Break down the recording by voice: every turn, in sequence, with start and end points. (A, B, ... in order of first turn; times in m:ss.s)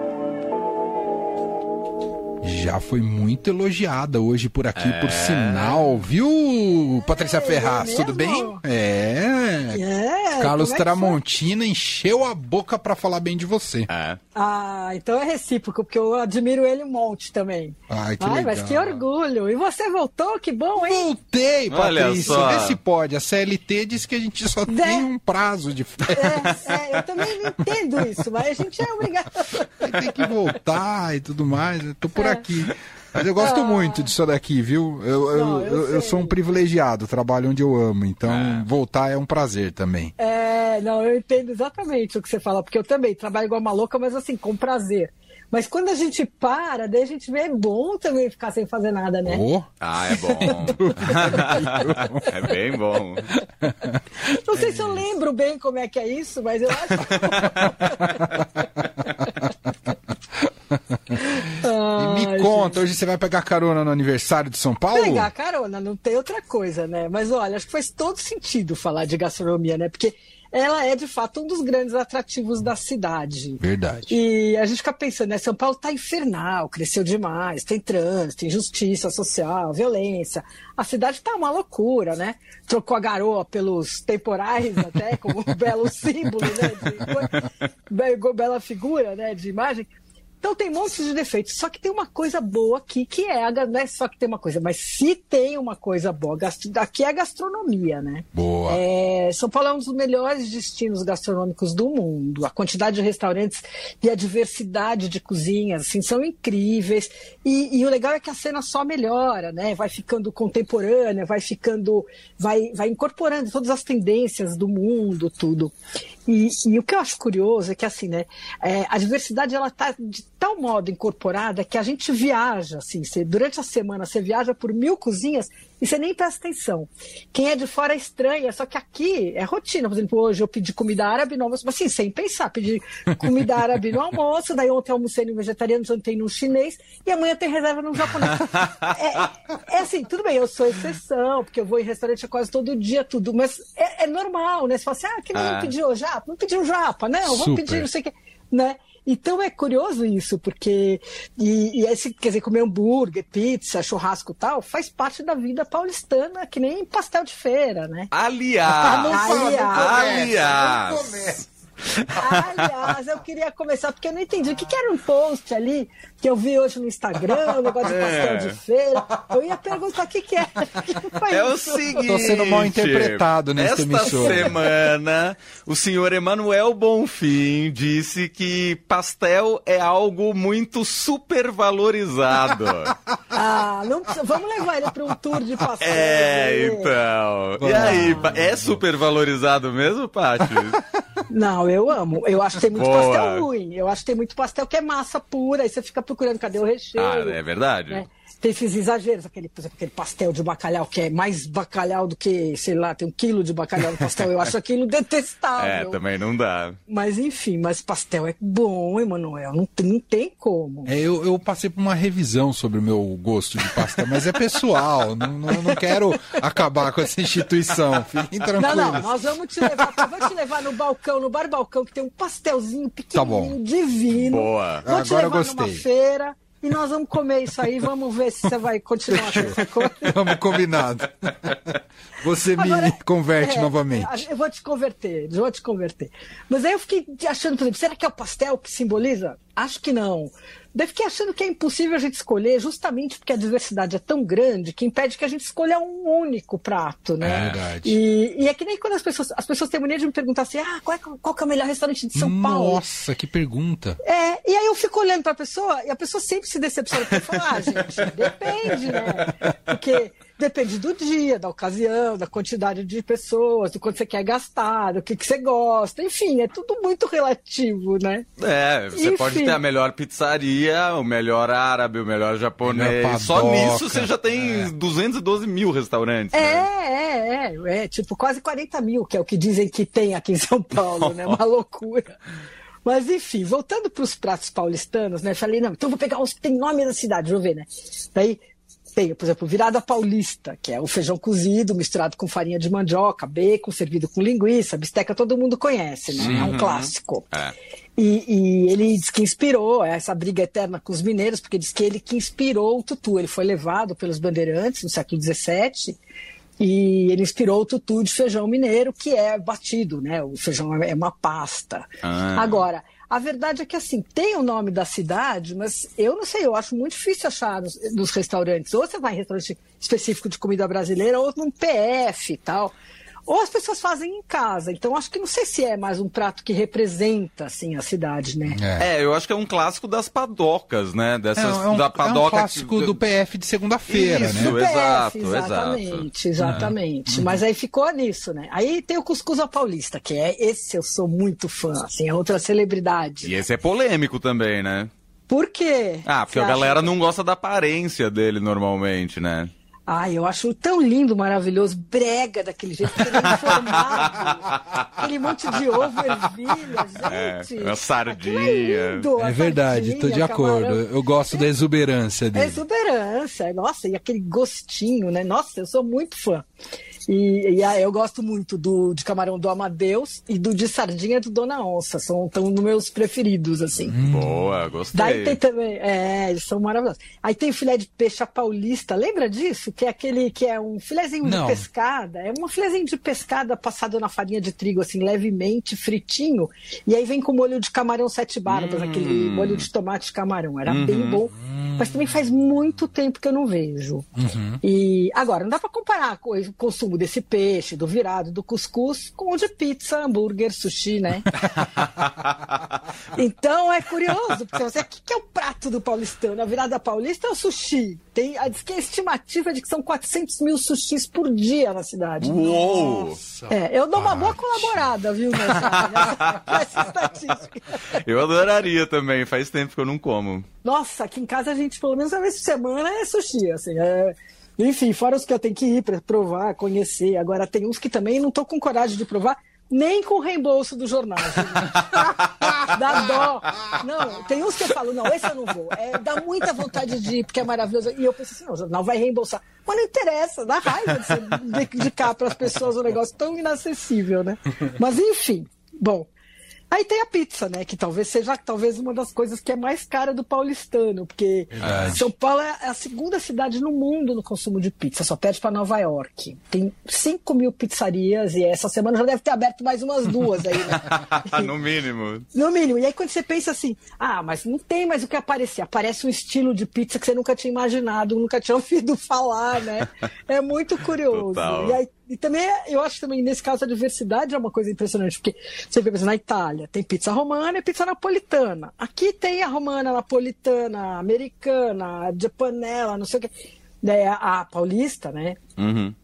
0:02.4-0:09.8 A
0:04.7-0:06.0 B
0:07.0-0:08.6 C
0:09.7-0:11.2 C
0:10.4-0:13.9 A
0:13.9-0:14.2 B
0:14.3-0:21.1 C
0:17.9-0:19.0 A
0:20.8-0:26.7 A
0:21.7-0:22.8 B
0:24.7-0:25.1 C
0:26.1-0:30.3 C
0:29.8-0:40.1 A
0:32.2-0:32.4 C
0:33.4-0:34.1 C
0:35.3-0:36.4 C
0:38.2-0:38.6 B
0:40.2-0:49.4 C
0:49.2-0:52.5 A
0:49.8-0:53.3 B
0:53.3-0:55.0 A
0:54.3-0:59.2 C
0:57.0-0:57.4 B
0:57.6-0:59.2 A
1:00.9-1:01.2 A
1:01.2-1:02.8 C
1:01.9-1:05.3 A
1:04.9-1:55.7 C
1:13.6-1:14.2 A
1:38.3-1:38.8 A
1:56.3-2:38.1 C
2:18.3-2:18.8 B
2:25.3-2:25.7 B
2:27.2-2:27.9 A
2:38.1-2:41.2 B
2:38.8-2:40.3 C
2:38.8-2:41.5 A
2:41.8-2:42.7 B
2:42.2-2:52.0 C
2:47.8-2:48.6 B
2:51.3-3:02.9 B
2:51.9-2:54.5 A
2:54.0-2:54.5 C
3:03.3-3:06.9 C
3:05.8-3:10.8 B
3:07.6-3:08.8 A
3:07.8-3:08.1 C
3:11.3-3:26.0 C
3:12.7-3:13.5 B
3:17.0-3:18.0 B
3:25.6-3:26.8 B
3:26.9-3:30.9 C
3:30.8-3:39.1 A
3:38.6-3:50.2 C
3:39.6-3:40.1 A
3:43.1-3:43.6 A
3:44.3-3:44.8 B
3:44.8-3:45.8 A
3:49.1-3:54.2 A
3:52.5-4:12.8 C
4:07.2-4:08.0 A
4:07.2-4:07.6 B
4:12.1-4:14.0 A
4:14.0-4:28.3 C
4:28.4-4:36.6 B
4:28.9-4:29.6 C
4:32.6-4:34.7 A
4:36.3-4:42.2 C
4:40.7-4:41.4 B
4:42.8-4:48.4 C
4:48.9-4:57.3 C
4:56.2-4:56.5 A
4:56.2-4:57.5 B
4:58.0-5:06.0 C
5:06.6-5:22.7 C
5:12.0-5:12.6 B
5:23.2-5:28.6 C
5:28.5-5:28.9 A
5:28.8-5:33.0 B
5:31.4-5:34.6 A
5:33.9-5:36.7 B
5:34.2-5:43.4 C
5:36.4-5:37.4 A
5:43.2-5:44.9 B
5:45.3-5:46.9 C
5:46.0-5:49.5 B
5:49.9-6:01.5 C
5:57.1-5:59.1 B
5:59.2-6:02.6 A
6:02.3-6:06.4 C
6:07.1-6:14.0 C
6:13.9-6:14.4 A
6:14.0-6:15.4 B
6:14.9-6:41.4 C
6:21.2-6:21.6 A
6:28.5-6:29.7 B
6:30.6-6:31.2 B
6:31.5-6:32.1 A
6:34.2-6:34.6 A
6:43.1-6:52.4 C
6:52.2-6:53.2 B
6:52.3-6:55.0 A
6:53.5-6:57.8 C
6:55.6-6:56.1 B
6:55.6-6:55.8 A
6:57.9-7:00.5 B
7:00.6-7:12.0 C
7:11.6-7:12.5 A
7:12.7-7:26.1 C
7:26.7-7:41.5 C
7:31.5-7:32.1 A
7:40.6-7:42.2 B
7:42.3-8:05.4 C
7:51.1-7:51.8 B
8:05.6-8:05.9 B